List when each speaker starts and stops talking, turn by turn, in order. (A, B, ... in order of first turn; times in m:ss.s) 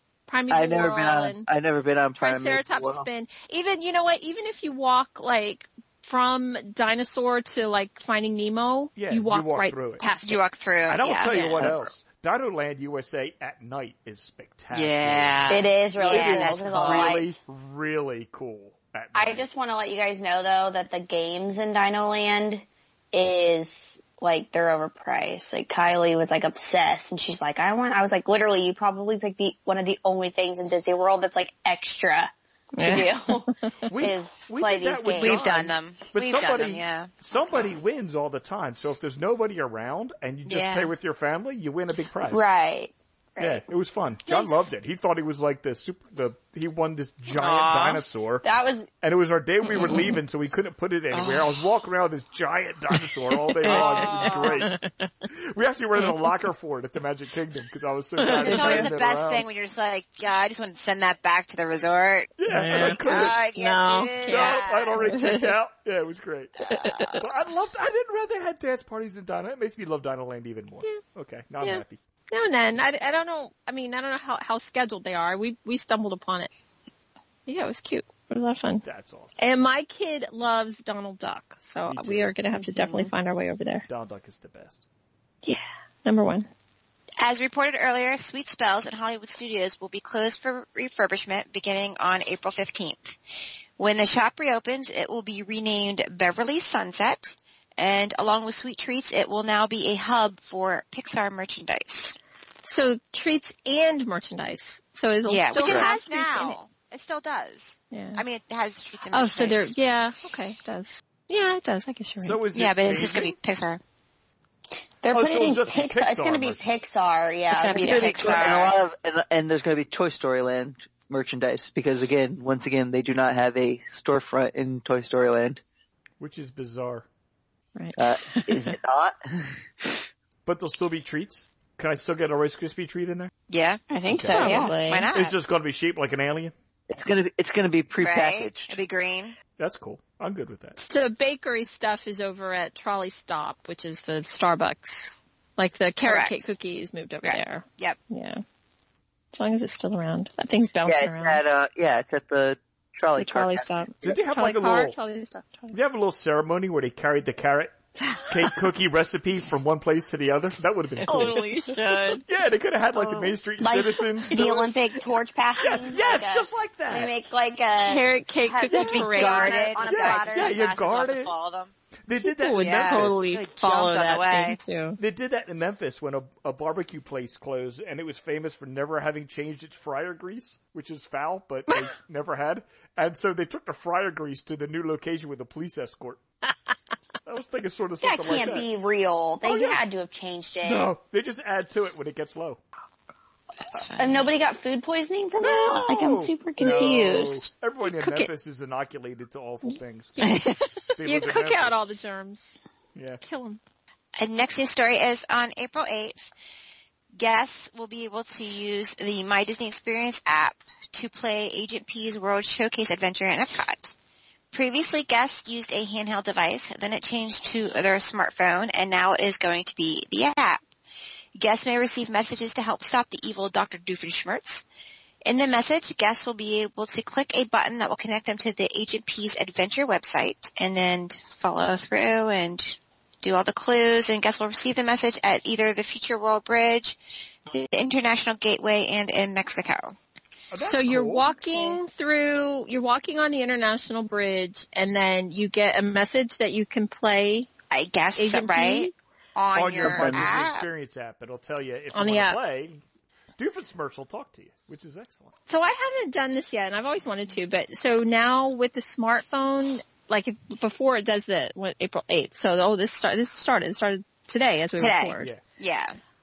0:00.3-0:01.5 A
0:00.5-0:03.1 B
0:02.2-0:10.4 A
0:09.0-0:10.1 C
0:10.2-0:11.7 D
0:10.9-0:15.5 C
0:11.6-0:11.9 B
0:14.7-0:17.2 D
0:15.5-0:17.4 E
0:16.0-0:19.4 C
0:19.1-0:35.4 E
0:32.8-0:33.7 A
0:33.9-0:42.4 C
0:35.2-0:37.1 D
0:40.4-0:40.9 D
0:42.3-0:43.6 E
0:43.4-0:48.4 C
0:44.3-0:44.6 A
0:47.3-0:48.0 D
0:48.4-0:48.9 E
0:49.0-0:59.5 C
0:49.7-0:50.1 A
0:51.1-0:51.6 D
0:53.6-0:55.1 A
0:53.6-0:54.6 D
0:53.8-0:54.3 E
0:55.9-0:56.2 A
0:58.2-0:58.9 A
0:58.3-1:05.0 D
1:02.4-1:03.4 C
1:02.5-1:05.5 A
1:04.2-1:06.5 C
1:06.7-1:07.2 A
1:06.7-1:07.1 D
1:07.2-1:12.0 C
1:11.6-1:16.5 A
1:17.4-1:18.8 A
1:18.8-1:19.4 C
1:19.4-1:23.8 A
1:21.9-1:22.3 C
1:23.9-1:24.8 C
1:25.4-1:26.5 A
1:27.2-1:33.2 D
1:33.8-1:42.2 D
1:42.6-1:46.6 A
1:45.3-1:49.7 D
1:47.9-1:48.2 A
1:49.1-1:52.4 A
1:52.2-1:53.3 C
1:52.5-1:53.8 D
1:55.0-1:58.6 E
1:55.1-1:56.6 C
1:57.5-1:58.7 D
1:57.8-2:05.6 B
2:06.2-2:07.0 C
2:07.8-2:08.7 A
2:08.0-2:10.0 B
2:10.4-2:13.3 C
2:13.5-2:13.8 D
2:13.9-2:14.7 E
2:14.1-2:16.5 C
2:14.3-2:15.1 A
2:14.8-2:15.3 D
2:16.9-2:18.7 B
2:18.0-2:19.4 D
2:19.6-2:20.8 C
2:20.8-2:28.4 A
2:26.0-2:26.5 D
2:27.2-2:28.0 D
2:29.3-2:31.4 A
2:30.8-2:33.7 B
2:33.2-2:35.8 A
2:34.0-2:35.0 C
2:35.7-2:37.8 C
2:38.0-2:38.6 A
2:38.3-2:44.8 C
2:41.0-2:42.2 A
2:43.0-2:43.3 A
2:43.6-2:50.6 E
2:45.6-2:47.1 C
2:47.8-2:49.7 A
2:48.7-2:51.7 D
2:49.8-2:51.3 C
2:52.0-2:53.3 C
2:52.2-2:55.0 A
2:52.6-2:54.6 D
2:55.0-3:06.2 C
3:07.2-3:08.7 C
3:08.0-3:10.9 E
3:09.5-3:09.8 C
3:10.6-3:12.6 C
3:13.7-3:14.3 D
3:14.0-3:17.5 E
3:15.4-3:20.4 C
3:17.8-3:18.3 A
3:19.6-3:22.6 A
3:20.2-3:20.8 D
3:21.0-3:21.8 C
3:22.9-3:23.2 C
3:23.2-3:23.6 A
3:24.2-3:26.3 D
3:27.2-3:33.9 D
3:34.5-3:40.6 D
3:41.4-3:44.6 D
3:45.2-3:57.0 D
3:57.5-3:59.9 D
4:00.5-4:01.8 C
4:00.6-4:07.5 A
4:07.7-4:10.6 D
4:08.2-4:08.9 A
4:09.5-4:12.8 C
4:09.8-4:10.3 B
4:11.9-4:12.4 A
4:13.4-4:15.3 C
4:15.5-4:25.3 A
4:24.8-4:26.0 D